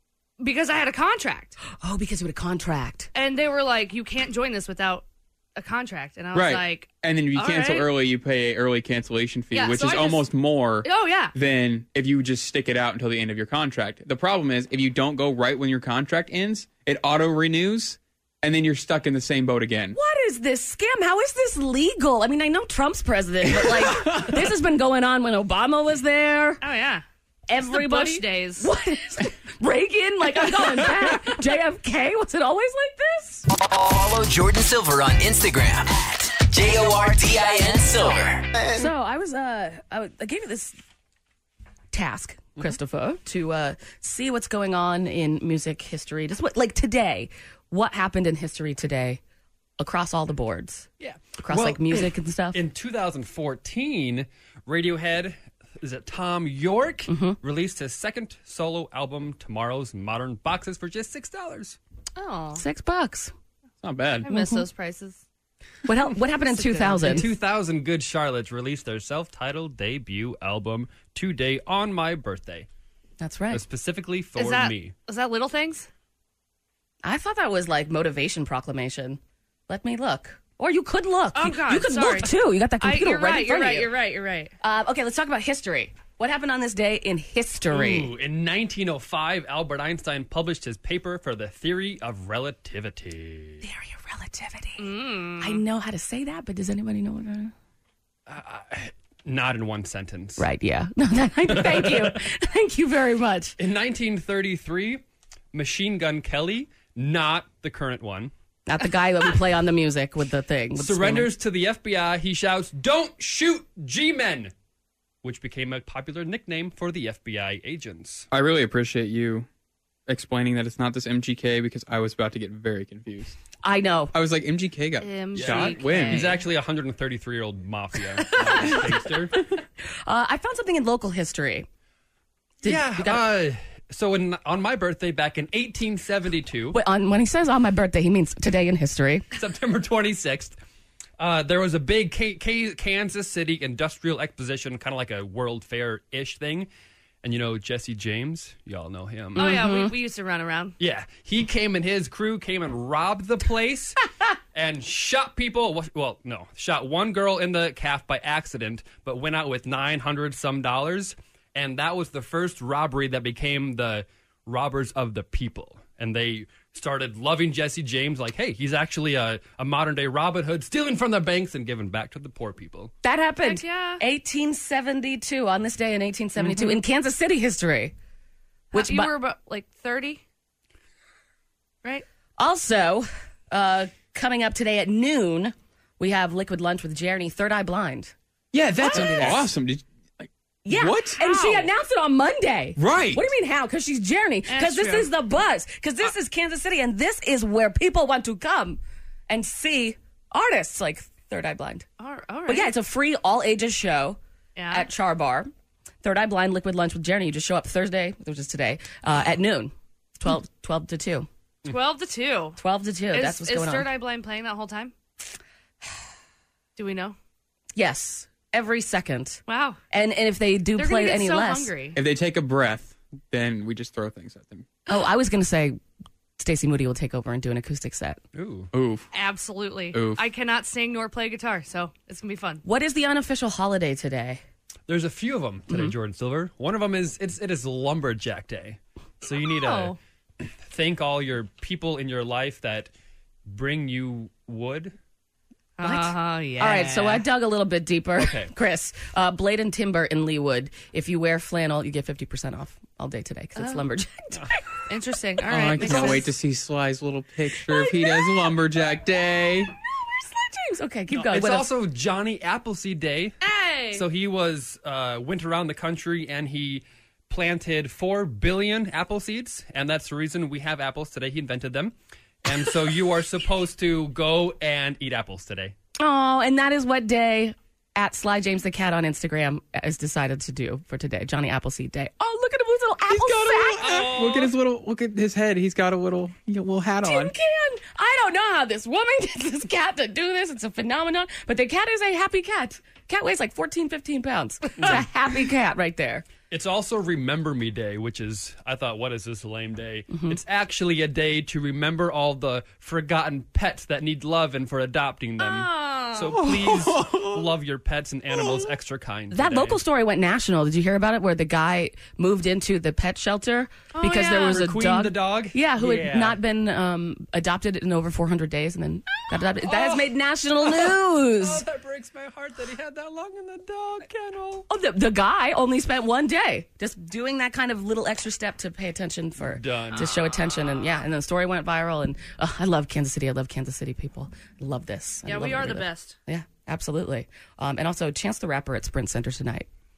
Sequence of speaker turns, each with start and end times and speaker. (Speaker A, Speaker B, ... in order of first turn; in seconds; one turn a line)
Speaker A: 0.4-1.6
Speaker B: 1.7-3.1
Speaker A: 3.1-5.0
Speaker A: 5.5-7.9
Speaker C: 6.3-20.0
Speaker A: 9.5-10.3
Speaker A: 10.8-11.3
Speaker B: 19.9-26.6
Speaker A: 26.6-27.0
Speaker B: 27.5-33.5
Speaker A: 27.6-28.7
Speaker D: 33.5-38.6
Speaker B: 38.7-40.8
Speaker B: 41.9-49.2
Speaker B: 49.8-52.6
Speaker E: 51.0-61.8
Speaker B: 57.1-57.4
Speaker A: 62.1-62.6
Speaker B: 62.5-63.3
Speaker C: 63.8-64.3
Speaker A: 64.2-65.2
Speaker B: 64.3-64.6
Speaker B: 65.8-67.3
Speaker A: 66.5-67.3
Speaker E: 67.0-72.7
Speaker B: 73.2-73.6
Speaker E: 73.5-74.9
Speaker A: 74.3-75.9
Speaker B: 77.0-83.9
Speaker A: 81.3-84.5
Speaker B: 84.6-88.1
Speaker E: 87.7-93.6
Speaker B: 93.6-97.5
Speaker A: 94.8-95.6
Speaker E: 98.3-100.5
Speaker B: 100.4-103.5
Speaker E: 101.5-102.2
Speaker E: 103.6-108.3
Speaker B: 108.7-111.3
Speaker E: 110.8-114.5
Speaker E: 115.2-118.3
Speaker C: 118.3-119.5
Speaker C: 120.1-123.3
Speaker B: 123.6-124.1
Speaker C: 124.1-126.4
Speaker A: 125.0-126.4
Speaker E: 125.3-129.4
Speaker A: 128.5-128.9
Speaker B: 130.1-131.7
Speaker B: 132.6-133.2
Speaker E: 132.6-136.8
Speaker B: 136.7-139.2
Speaker E: 139.3-140.6
Speaker E: 141.2-146.7
Speaker E: 147.2-149.6
Speaker B: 149.3-149.9
Speaker A: 149.4-150.7
Speaker E: 150.8-154.0
Speaker E: 154.5-172.9
Speaker B: 173.0-177.9
Speaker A: 173.4-174.0
Speaker B: 178.7-179.1
Speaker A: 178.7-180.2
Speaker B: 182.4-188.1
Speaker C: 188.5-191.2
Speaker B: 188.8-189.5
Speaker B: 190.6-201.8
Speaker A: 191.2-191.7
Speaker C: 192.8-193.2
Speaker A: 194.5-195.1
Speaker A: 202.0-202.7
Speaker B: 202.5-204.2
Speaker A: 204.6-204.9
Speaker B: 204.7-205.5
Speaker B: 206.0-211.3
Speaker A: 211.7-212.6
Speaker B: 212.6-213.9
Speaker A: 213.1-214.9
Speaker A: 216.8-217.2
Speaker B: 217.7-221.7
Speaker A: 219.5-219.8
Speaker A: 220.8-222.0
Speaker C: 221.9-224.7
Speaker B: 224.9-225.8
Speaker B: 226.4-228.2
Speaker E: 228.3-228.7
Speaker C: 228.7-229.0
Speaker A: 229.1-232.6
Speaker C: 229.9-230.2
Speaker B: 232.6-234.4
Speaker E: 234.9-239.9
Speaker B: 235.7-235.9
Speaker A: 239.6-240.0
Speaker E: 240.6-242.9
Speaker E: 243.4-244.9
Speaker A: 245.8-247.2
Speaker B: 245.8-254.6
Speaker E: 248.2-248.5
Speaker A: 253.6-253.8
Speaker A: 254.9-256.2
Speaker C: 255.4-259.7
Speaker B: 255.8-256.2
Speaker B: 257.7-258.4
Speaker B: 260.1-261.7
Speaker E: 261.1-263.4
Speaker A: 263.4-264.0
Speaker E: 263.9-275.7
Speaker B: 276.0-284.0
Speaker C: 283.1-287.3
Speaker E: 283.8-284.5
Speaker B: 287.0-296.2
Speaker E: 296.5-309.8
Speaker B: 300.1-300.4
Speaker A: 305.4-306.4
Speaker C: 306.4-307.2
Speaker B: 309.3-321.6
Speaker A: 313.9-314.6
Speaker E: 314.1-316.4
Speaker E: 319.6-320.1
Speaker E: 320.6-324.6
Speaker B: 324.7-339.7
Speaker E: 329.4-330.1
Speaker A: 335.2-336.2